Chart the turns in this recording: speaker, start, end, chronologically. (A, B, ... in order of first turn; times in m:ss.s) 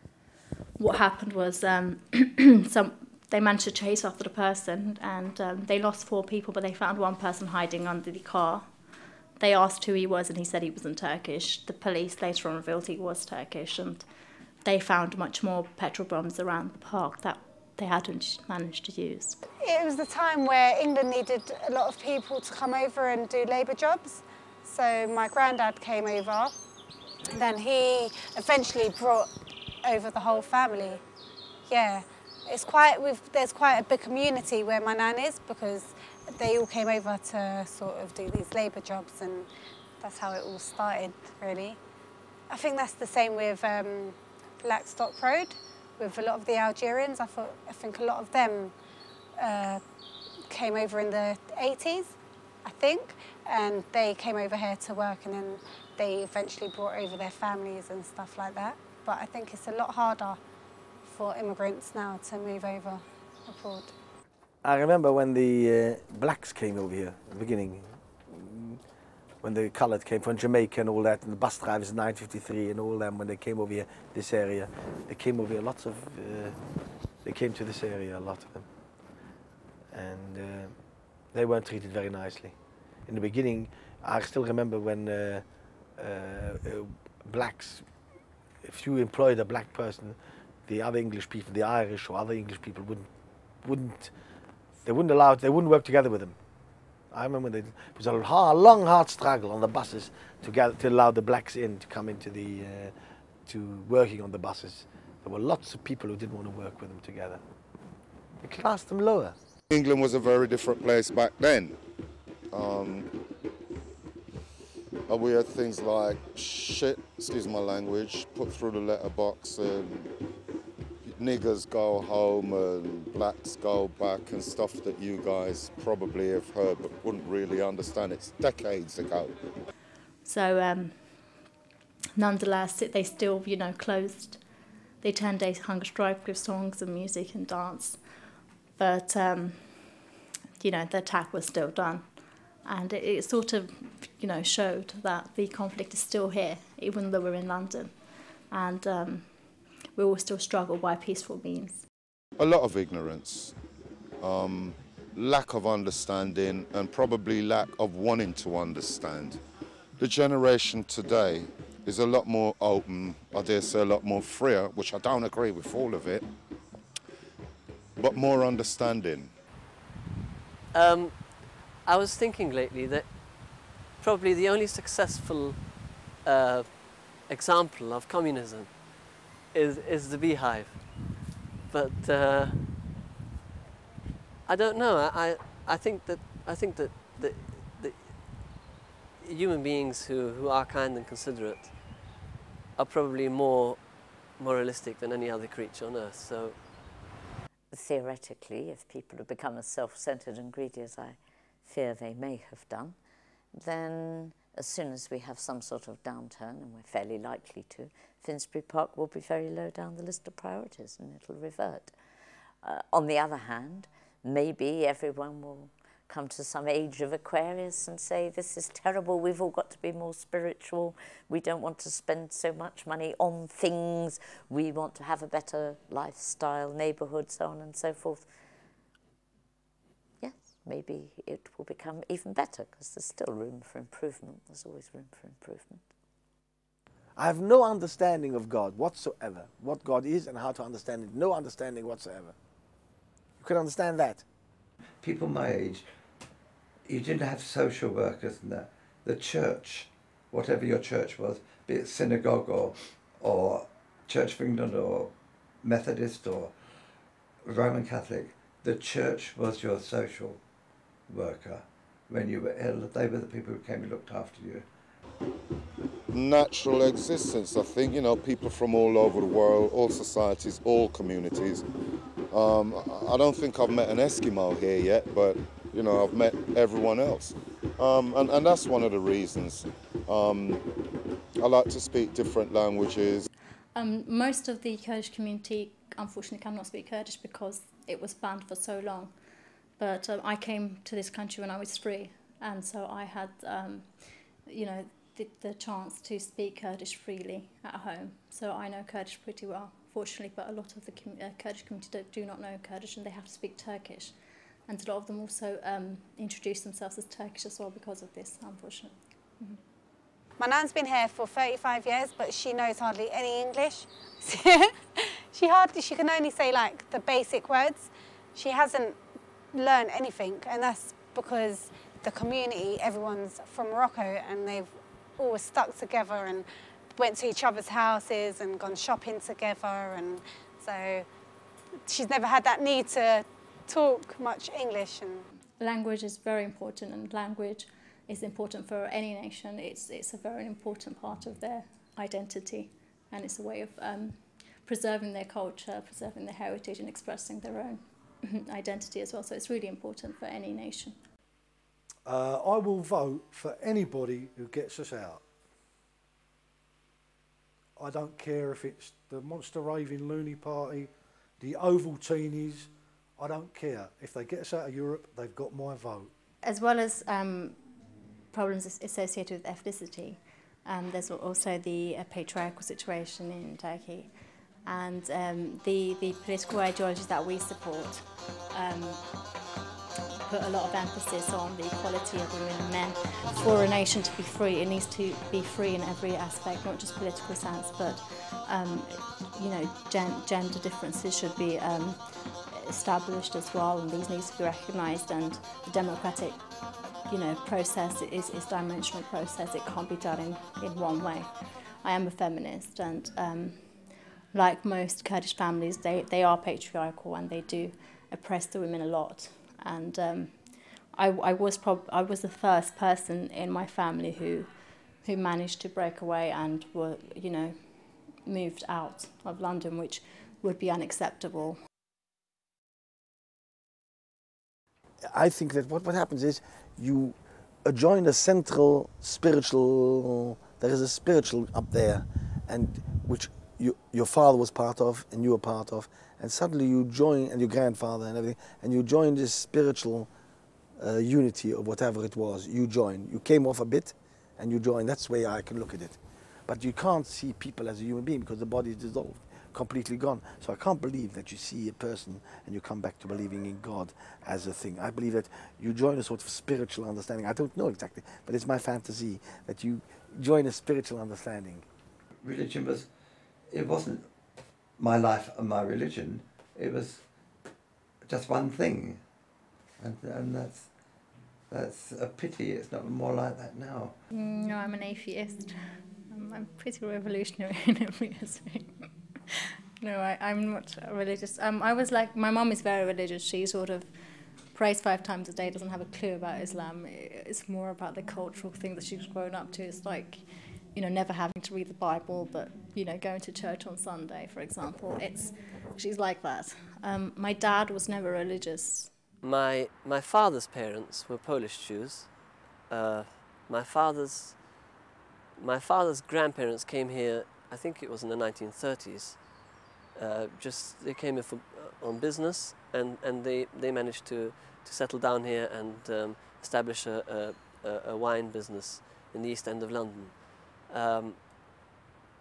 0:00.8-0:14.1 A
0:14.6-0:19.4 A
0:19.6-0:26.5 B
0:27.3-0:29.3 B
0:29.8-0:31.0 B
0:31.7-0:39.5 B
0:40.0-0:41.8 B
0:42.5-0:48.7 B
0:49.4-0:49.8 B
0:50.5-1:00.4 B
1:01.0-1:03.9 B
1:04.6-1:08.8 C
1:09.4-1:16.6 C
1:17.2-1:18.7 C
1:19.9-1:20.8 C
1:21.3-1:22.6 C
1:23.1-1:25.4 C
1:26.0-1:27.9 C
1:28.6-1:33.1 C
1:33.6-1:34.1 C
1:34.8-1:36.4 C
1:37.1-1:42.9 C
1:43.5-1:47.4 C
1:48.4-1:49.4 C
1:49.7-1:51.8 D
1:52.5-1:53.1 D
1:55.1-2:00.1 D
2:01.0-2:09.4 D
2:10.2-2:11.5 A
2:12.2-2:14.5 A
2:15.0-2:31.8 A
2:32.4-2:33.6 D
2:34.2-2:39.4 D
2:40.0-2:46.3 D
2:48.0-2:49.3 D
2:50.7-3:02.7 E
3:04.5-3:08.3 E
3:09.2-3:11.9 E
3:12.8-3:13.8 E
3:14.4-3:16.6 E
3:17.7-3:23.0 F
3:23.6-3:32.0 F
3:32.6-3:48.3 F
3:50.2-3:55.9 F
3:57.2-4:02.4 C
4:03.4-4:04.2 C
4:05.0-4:05.9 G
4:06.9-4:16.5 G
4:17.4-4:20.4 G
4:21.1-4:24.7 G
4:26.1-4:31.6 D
4:32.3-4:40.6 D
4:41.4-4:43.3 D
4:43.7-5:09.6 A
5:10.4-5:19.0 B
5:19.5-5:31.1 B
5:31.9-5:35.3 B
5:35.6-5:51.0 A
5:52.1-5:55.2 H
5:57.8-6:06.1 H
6:06.4-6:07.7 A
6:08.3-6:19.1 A
6:20.3-7:01.6 A
7:05.1-7:20.1 C
7:20.8-7:41.7 C
7:42.2-7:42.9 G
7:43.5-7:44.1 G
7:44.8-7:47.0 G
7:48.1-7:49.0 G
7:49.8-7:50.7 G
7:51.5-7:54.0 G
7:54.1-7:58.9 A
7:59.8-8:19.0 A
8:19.2-8:24.7 E
8:25.4-8:41.2 E